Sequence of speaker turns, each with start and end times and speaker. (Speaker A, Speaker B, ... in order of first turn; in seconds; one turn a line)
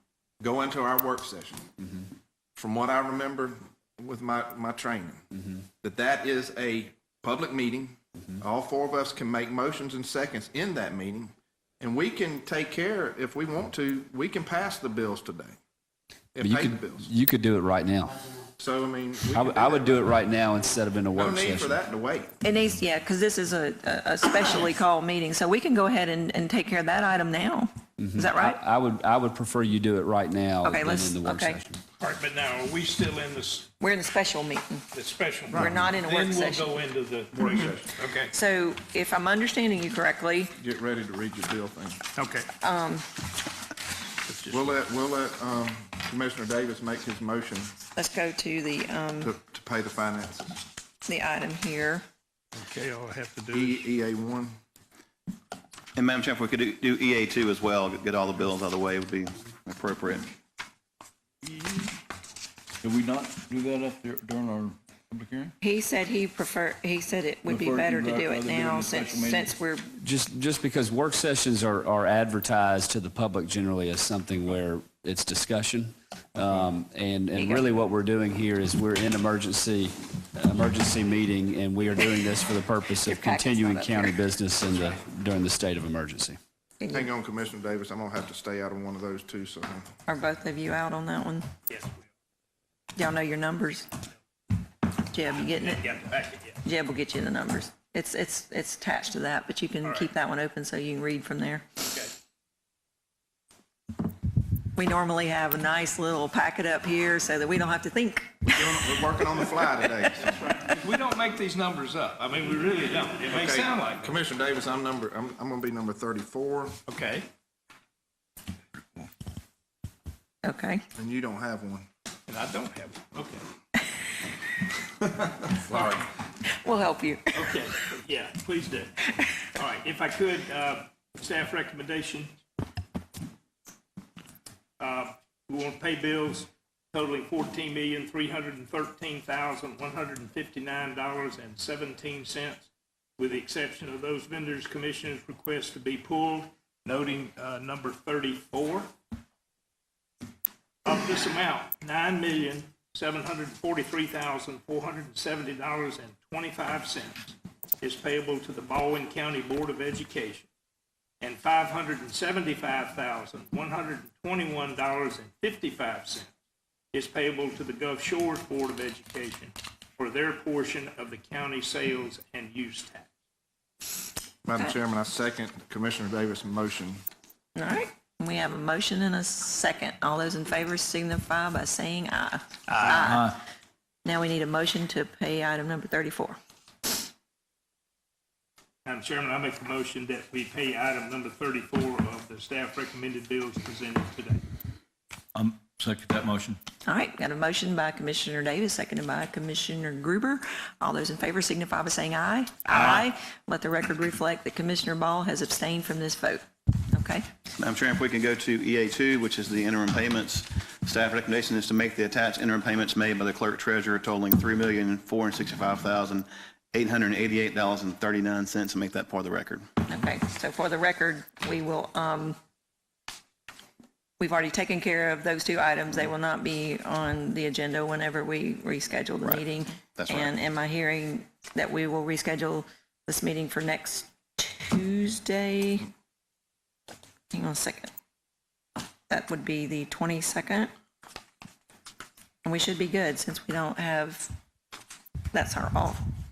Speaker A: 0.4-1.9
Speaker A: 2.6-5.3
Speaker A: 5.8-15.6
Speaker A: 16.3-17.1
Speaker B: 16.4-18.1
Speaker A: 18.6-20.2
Speaker B: 19.3-21.8
Speaker A: 21.1-22.3
Speaker C: 22.4-28.6
Speaker B: 28.0-31.8
Speaker C: 30.6-31.6
Speaker D: 32.0-33.7
Speaker C: 33.8-34.9
Speaker D: 34.9-38.3
Speaker A: 35.5-35.8
Speaker C: 35.5-36.7
Speaker A: 37.3-37.9
Speaker C: 38.3-40.5
Speaker A: 40.6-42.0
Speaker D: 42.1-42.5
Speaker C: 42.6-43.1
Speaker D: 44.2-44.7
Speaker A: 44.5-47.7
Speaker C: 47.9-49.3
Speaker A: 49.2-50.5
Speaker C: 51.0-52.0
Speaker D: 52.5-53.9
Speaker A: 53.5-54.6
Speaker E: 56.0-60.3
Speaker F: 62.8-65.5
Speaker C: 65.6-70.0
Speaker F: 67.4-69.5
Speaker B: 70.0-86.4
Speaker C: 77.3-77.6
Speaker C: 83.0-84.2
Speaker C: 86.8-87.1
Speaker A: 86.9-89.9
Speaker C: 90.1-91.5
Speaker D: 91.7-92.0
Speaker C: 92.9-93.9
Speaker C: 95.1-95.9
Speaker D: 95.6-96.6
Speaker C: 96.6-101.8
Speaker C: 104.7-109.3
Speaker A: 108.5-110.4
Speaker D: 110.2-114.1
Speaker A: 113.3-116.8
Speaker D: 116.9-117.3
Speaker C: 120.4-120.8
Speaker A: 120.9-121.9
Speaker D: 122.3-123.4
Speaker C: 126.4-127.6
Speaker D: 127.3-132.3
Speaker D: 134.8-148.9
Speaker D: 150.8-160.5
Speaker D: 161.2-166.3
Speaker D: 166.9-173.1
Speaker A: 174.4-177.0
Speaker C: 177.5-183.4
Speaker F: 182.7-183.3
Speaker C: 184.0-186.4
Speaker D: 188.8-194.4
Speaker F: 195.3-196.6
Speaker C: 196.8-207.3
Speaker E: 207.5-219.7
Speaker C: 219.9-222.4
Speaker C: 224.2-235.9
Speaker E: 229.9-230.3
Speaker C: 237.3-237.9
Speaker C: 239.1-240.7
Speaker C: 242.4-244.3
Speaker C: 245.3-246.0